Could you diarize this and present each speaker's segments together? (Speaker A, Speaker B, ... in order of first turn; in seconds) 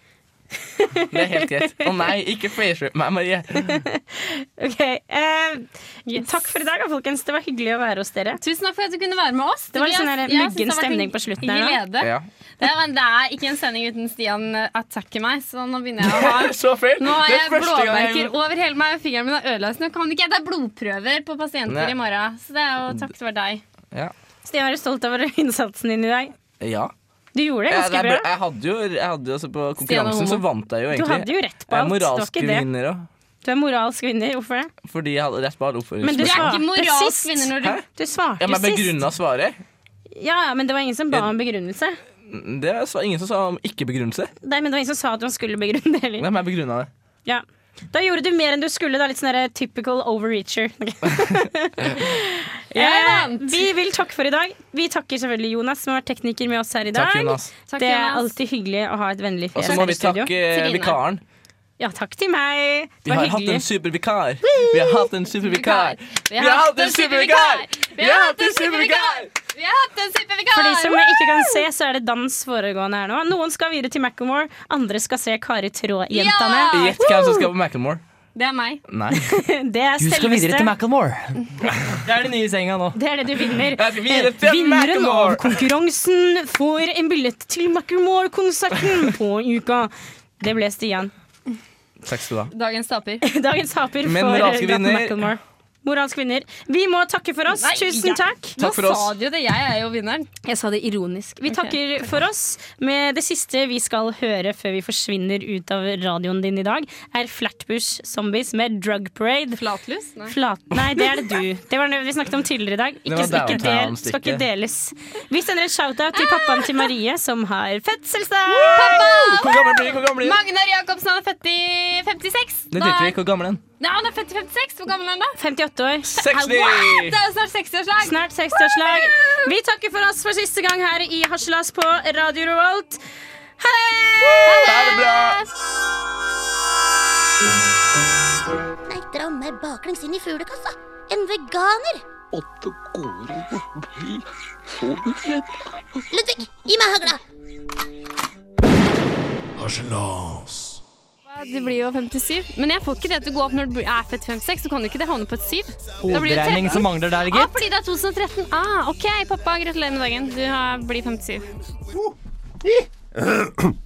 Speaker A: 0.7-1.9, 3.7-8.4, 9.7-11.8, 24.4-26.3, 27.3-28.3, 30.9-32.7, 33.4-34.7, 36.0-39.0, 40.1-42.0, 44.4-46.3, 47.2-60.3, 61.8-63.6, 70.5-77.1, 79.1-80.7, 82.9-91.1, 93.2-98.5, 100.4-109.6, 110.3-119.1, 125.4-126.4, 128.0-133.0, 133.6-134.7
Speaker B: 1.1-3.8, 12.0-12.3, 16.0-18.3, 21.7-21.9, 26.6-26.9, 27.7-33.1, 34.8-36.6, 38.4-39.6, 42.2-44.3, 46.2-46.9, 56.9-57.5, 59.5-61.2, 63.0-69.3, 76.7-78.0, 78.9-79.2, 83.7-85.4, 92.0-92.5, 94.0-95.3, 98.6-99.1, 113.0-114.4, 118.5-120.4, 122.7-123.6, 126.1-127.2, 134.2-135.4
Speaker C: 6.0-6.6, 8.4-23.6, 29.8-30.4, 36.2-37.8, 52.7-53.7, 57.7-58.3, 59.6-61.0, 64.5-71.6, 76.1-77.5, 78.3-78.8, 92.5-93.2, 97.5-100.3, 101.5-101.8, 109.5-110.4, 116.2-116.9, 118.7-123.2, 123.8-125.4, 126.2-129.5, 134.4-135.5, 151.2-161.5
Speaker D: 80.0-83.0, 156.0-157.6
Speaker E: 138.9-142.0, 146.1-147.2
Speaker F: 142.3-146.1, 149.6-150.8